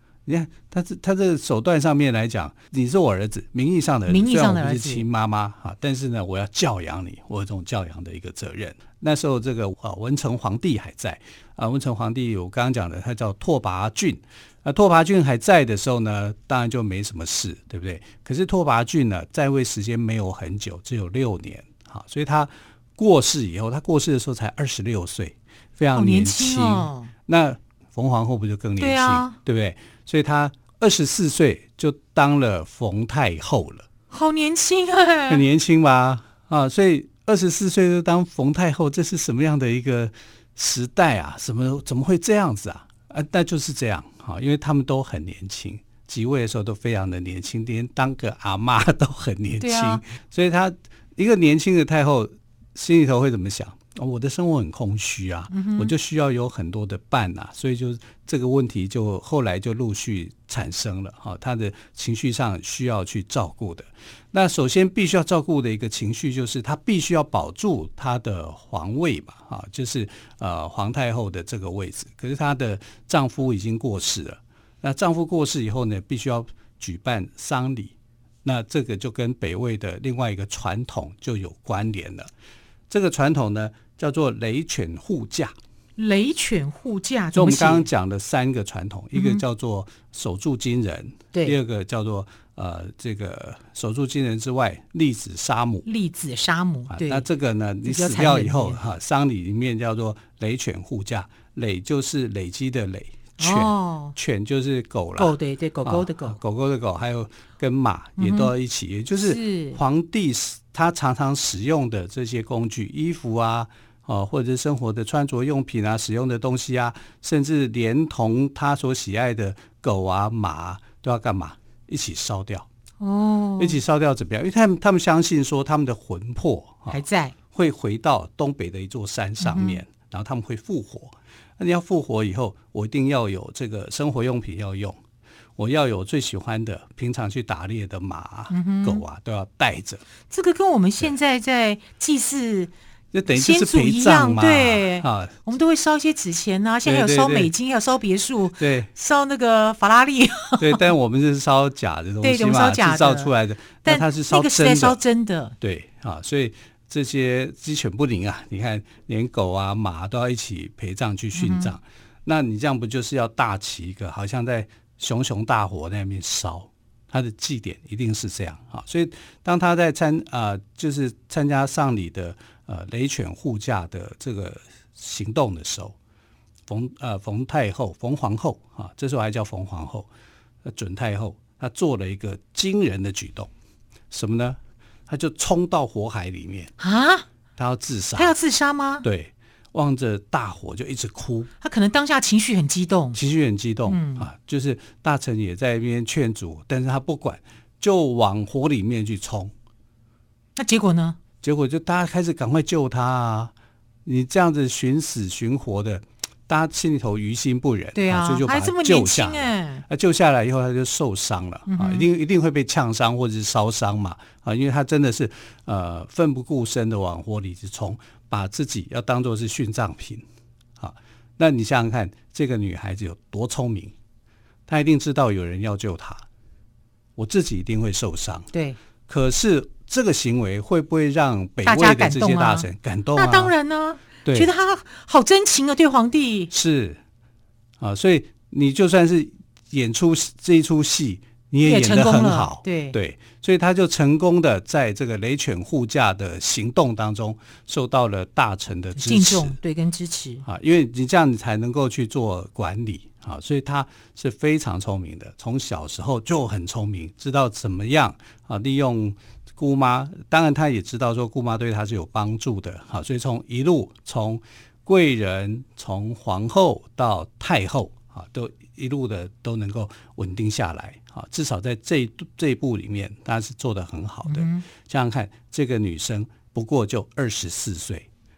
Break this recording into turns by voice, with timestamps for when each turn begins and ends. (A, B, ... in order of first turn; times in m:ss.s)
0:00.3-0:33.9 A
0:04.1-0:05.1 B
0:26.0-0:27.1 B
0:28.8-0:29.4 B
0:34.1-0:35.4 B
0:35.3-1:22.3 A
0:49.6-0:50.0 B
0:55.5-0:55.9 B
1:22.9-1:25.6 A
1:26.0-1:27.9 B
1:27.3-1:35.9 A
1:29.1-1:29.4 B
1:35.8-1:37.3 B
1:36.9-2:02.7 A
1:37.8-1:38.8 B
1:43.4-1:44.2 B
1:45.2-1:46.4 B
1:48.2-1:48.5 B
1:49.2-1:49.8 B
2:03.0-2:03.8 B
2:03.6-2:15.0 A
2:06.9-2:07.4 B
2:09.4-2:09.8 B
2:15.6-2:20.0 A
2:18.5-2:19.0 B
2:20.3-2:22.7 B
2:23.1-2:25.4 A
2:23.3-2:30.8 B
2:26.8-2:27.5 A
2:28.6-2:28.9 A
2:30.6-2:35.0 A
2:32.2-2:33.3 B
2:33.8-2:35.6 B
2:35.6-2:56.0 A
2:41.3-2:41.8 B
2:56.7-3:00.1 A
3:00.6-3:03.5 A
3:04.1-3:06.7 A
3:06.8-3:07.3 B
3:07.6-3:08.4 A
3:08.2-3:09.1 B
3:09.0-3:11.5 A
3:11.6-3:13.2 B
3:13.2-3:19.5 A
3:13.9-3:14.3 B
3:20.6-3:21.2 B
3:21.4-3:23.5 A
3:24.0-3:40.2 A
3:28.0-3:29.8 B
3:31.7-3:32.1 B
3:40.8-3:43.9 A
3:44.7-3:46.2 A
3:47.2-3:48.5 A
3:48.5-3:48.8 B
3:49.1-3:53.5 A
3:51.6-3:56.5 B
3:54.2-3:54.5 A
3:56.5-3:57.0 A
3:57.8-4:09.6 A
4:01.6-4:03.0 B
4:09.0-4:10.4 B
4:10.5-4:38.1 A
4:34.2-4:34.6 B